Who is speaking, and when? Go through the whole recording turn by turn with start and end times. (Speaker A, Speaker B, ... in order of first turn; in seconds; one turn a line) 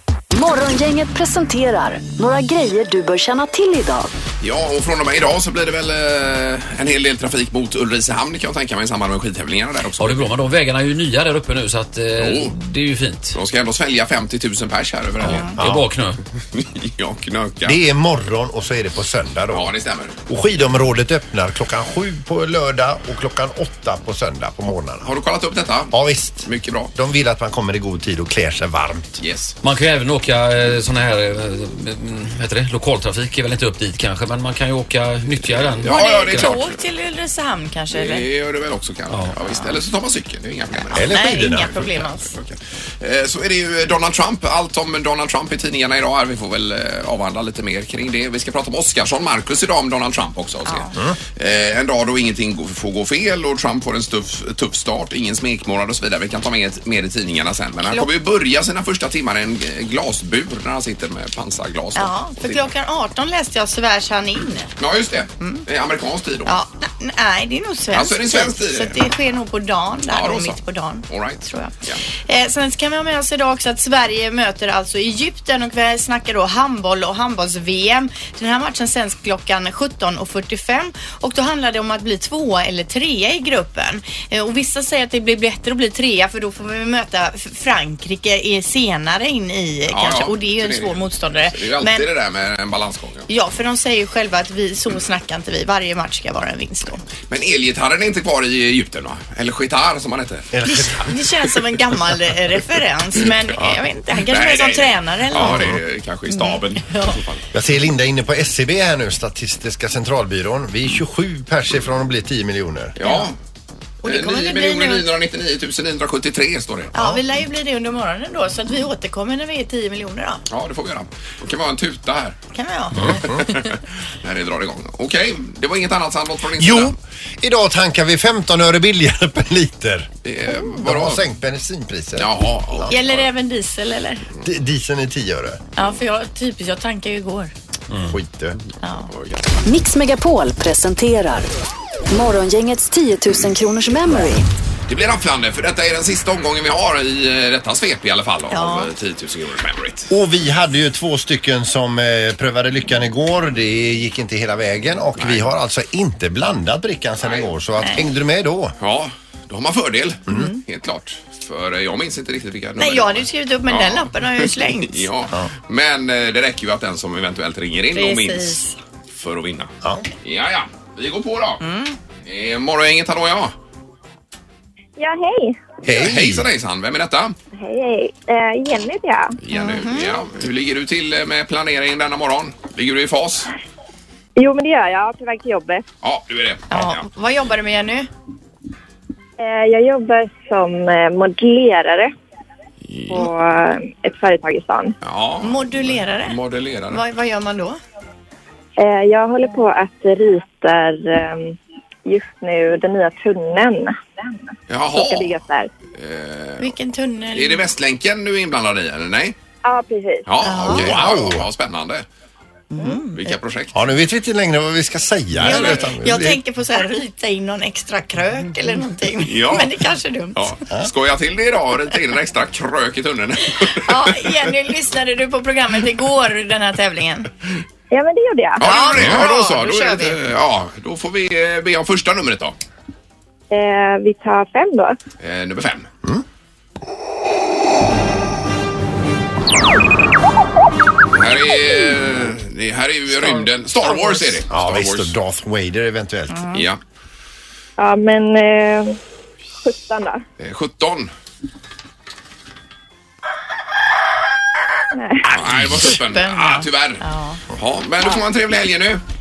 Speaker A: 0.3-4.1
Speaker B: 4.4-10.3
Speaker C: 10.0-13.4
Speaker B: 12.2-12.5
Speaker B: 13.3-15.6
Speaker D: 15.2-15.5
Speaker C: 15.3-16.2
Speaker E: 15.6-15.9
Speaker B: 16.5-17.8
Speaker E: 17.6-19.7
Speaker B: 19.5-20.1
Speaker E: 20.3-25.1
Speaker B: 25.0-26.9
Speaker E: 25.9-29.2
Speaker B: 29.2-29.6
Speaker C: 29.6-36.6
Speaker B: 35.8-36.8
Speaker D: 35.8-38.3
Speaker B: 37.9-41.1
Speaker E: 40.9-41.9
Speaker D: 40.9-42.4
Speaker B: 42.3-62.6
Speaker D: 62.0-64.7
Speaker B: 64.8-66.6
Speaker D: 65.4-65.7
Speaker D: 66.5-71.7
Speaker B: 67.9-69.0
Speaker B: 70.1-72.0
Speaker D: 72.3-92.1
Speaker B: 89.9-93.3
Speaker D: 93.3-97.0
Speaker B: 97.3-101.0
Speaker E: 100.5-101.0
Speaker D: 101.0-105.8
Speaker B: 104.3-107.4
Speaker E: 105.4-105.8
Speaker D: 106.3-107.2
Speaker E: 107.5-113.0
Speaker B: 113.0-113.3
Speaker D: 113.0-113.3
Speaker D: 114.0-115.1
Speaker B: 114.0-117.0
Speaker D: 116.9-120.4
Speaker B: 120.5-122.4
Speaker D: 122.5-123.3
Speaker E: 123.0-123.5
Speaker B: 123.1-127.0
Speaker E: 126.6-130.1
Speaker B: 130.2-131.2
Speaker E: 130.8-132.9
Speaker B: 132.2-133.3
Speaker D: 132.9-134.3
Speaker E: 134.4-135.6
Speaker D: 135.8-137.5
Speaker E: 138.1-138.6
Speaker D: 138.8-139.1
Speaker B: 139.1-139.5
Speaker A: 139.7-141.5
Speaker A: 142.1-144.5
Speaker B: 144.9-150.1
Speaker D: 148.5-148.9
Speaker E: 150.1-158.8
Speaker B: 155.2-155.5
Speaker B: 158.8-169.7
Speaker D: 160.3-160.6
Speaker D: 162.8-165.1
Speaker D: 167.9-168.8
Speaker B: 170.2-171.6
Speaker D: 171.6-172.0
Speaker B: 172.2-173.5
Speaker F: 175.0-175.6
Speaker E: 175.8-176.5
Speaker B: 175.9-177.4
Speaker F: 177.5-179.4
Speaker B: 179.4-183.5
Speaker D: 179.5-180.2
Speaker F: 184.4-185.9
Speaker B: 186.0-187.1
Speaker D: 186.7-188.1
Speaker F: 189.4-192.1
Speaker B: 192.8-193.3
Speaker F: 193.1-195.0
Speaker B: 195.0-197.0
Speaker D: 195.4-196.4
Speaker D: 196.9-197.8
Speaker F: 198.8-204.3
Speaker B: 204.7-205.3
Speaker F: 204.9-205.7
Speaker B: 205.9-206.7
Speaker D: 206.6-207.7
Speaker B: 207.3-209.4
Speaker F: 209.6-210.3
Speaker B: 210.3-212.1
Speaker D: 210.4-210.9
Speaker E: 210.7-211.5
Speaker D: 212.7-213.3
Speaker B: 213.1-213.8
Speaker E: 213.8-216.4
Speaker D: 215.4-220.5
Speaker B: 219.2-219.8
Speaker B: 220.4-224.4
Speaker D: 223.7-227.3
Speaker F: 227.9-228.6
Speaker D: 228.6-230.2
Speaker B: 228.6-232.6
Speaker E: 229.0-229.2
Speaker F: 233.5-235.0
Speaker B: 235.2-235.9
Speaker B: 241.1-245.1
Speaker D: 243.3-244.4
Speaker E: 244.5-246.4
Speaker D: 246.3-246.7
Speaker B: 246.5-246.8
Speaker F: 247.8-249.0
Speaker F: 249.6-250.2
Speaker B: 250.4-251.1
Speaker F: 254.9-255.2
Speaker B: 255.3-257.0
Speaker E: 255.4-256.0
Speaker D: 255.8-257.4
Speaker B: 257.5-259.0